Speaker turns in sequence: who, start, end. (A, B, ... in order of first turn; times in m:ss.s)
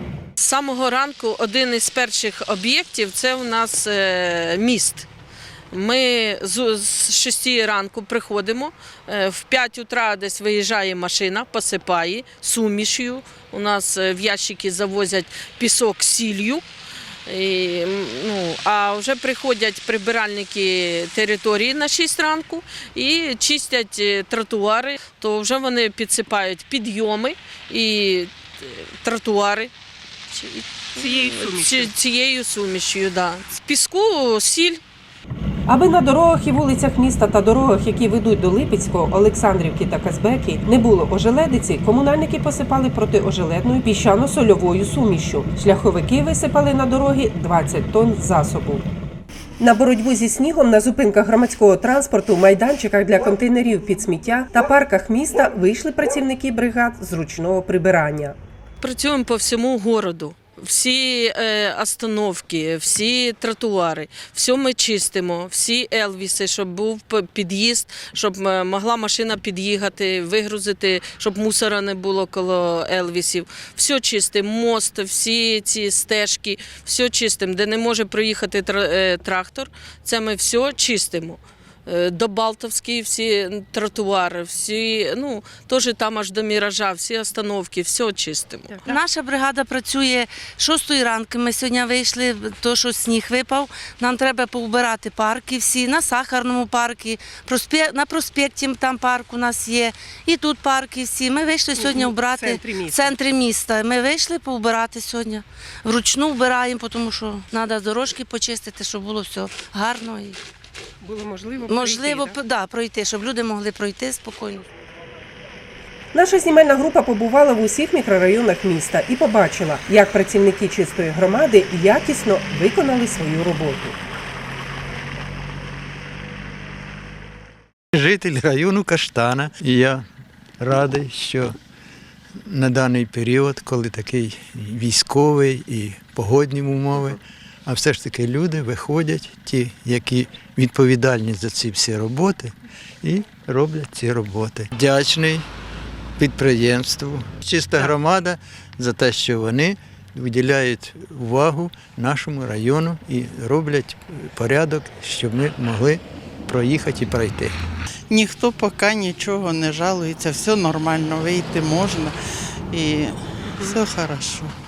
0:00.4-0:05.1 A
0:05.7-0:16.6 A
0:17.3-0:29.7 A
0:30.3-0:34.8 A
0:31.0-0:31.9 B
0:35.7-0:48.9 B
0:49.6-0:58.4 B
0:58.8-1:28.9 A
1:28.8-1:50.4 C
1:41.7-1:43.2 B
1:51.0-1:52.4 B
1:51.7-1:54.7 C
1:56.1-2:04.0 B
2:07.9-2:10.0 D
2:10.6-2:11.5 D
2:12.4-2:25.5 D
2:26.2-2:37.6 D
2:38.1-2:42.1 E
2:42.7-2:44.5 E